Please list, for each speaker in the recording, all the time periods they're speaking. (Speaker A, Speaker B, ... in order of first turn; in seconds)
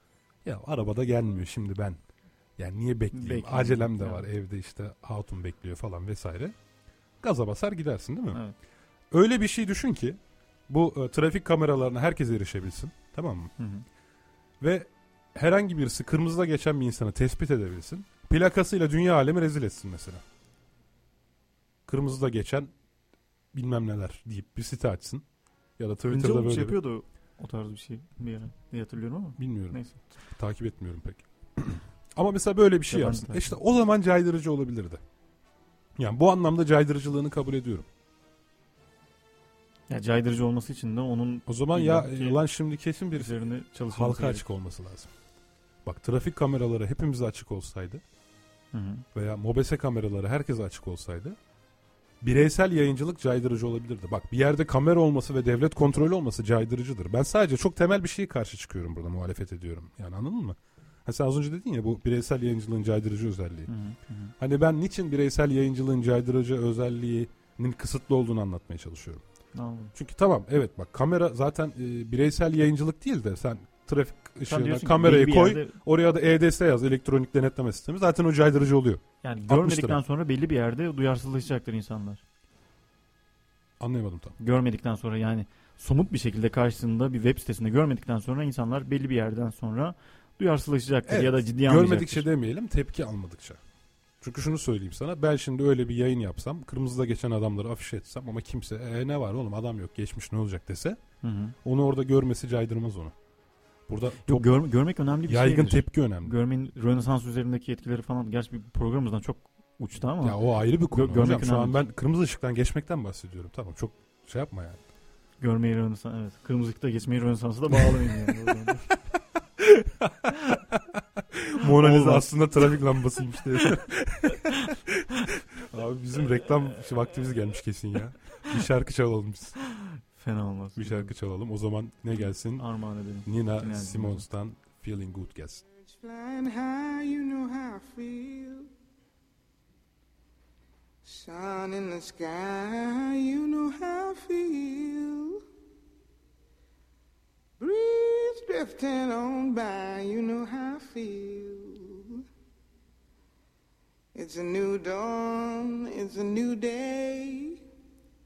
Speaker A: 0.4-2.0, 2.6-6.5, 7.2-8.4, 9.1-13.5, 14.6-20.2, 21.9-22.7, 23.5-25.2, 25.8-26.8, 29.4-35.0, 36.0-37.9, 41.5-45.1, 45.8-48.0, 49.1-51.4, 52.2-63.7, 64.4-69.2, 69.9-80.0, 83.8-84.3, 91.0-93.6, 94.2-101.0, 101.6-103.1, 103.9-104.5, 105.3-106.3, 110.2-114.8, 119.6-129.6, 130.8-132.7, 133.2-135.6
Speaker B: 3.1-4.3, 13.6-13.8, 26.1-30.2, 32.9-33.5, 39.9-42.4, 43.1-44.5, 48.7-49.0, 63.7-64.3, 69.5-69.9, 74.5-75.8, 79.2-82.2, 84.4-92.3, 101.2-101.5, 104.2-111.8, 115.4-118.9, 121.6-122.3, 129.7-131.1, 132.6-134.2
Speaker C: 135.8-138.7, 141.0-145.4, 147.6-152.2, 154.1-157.6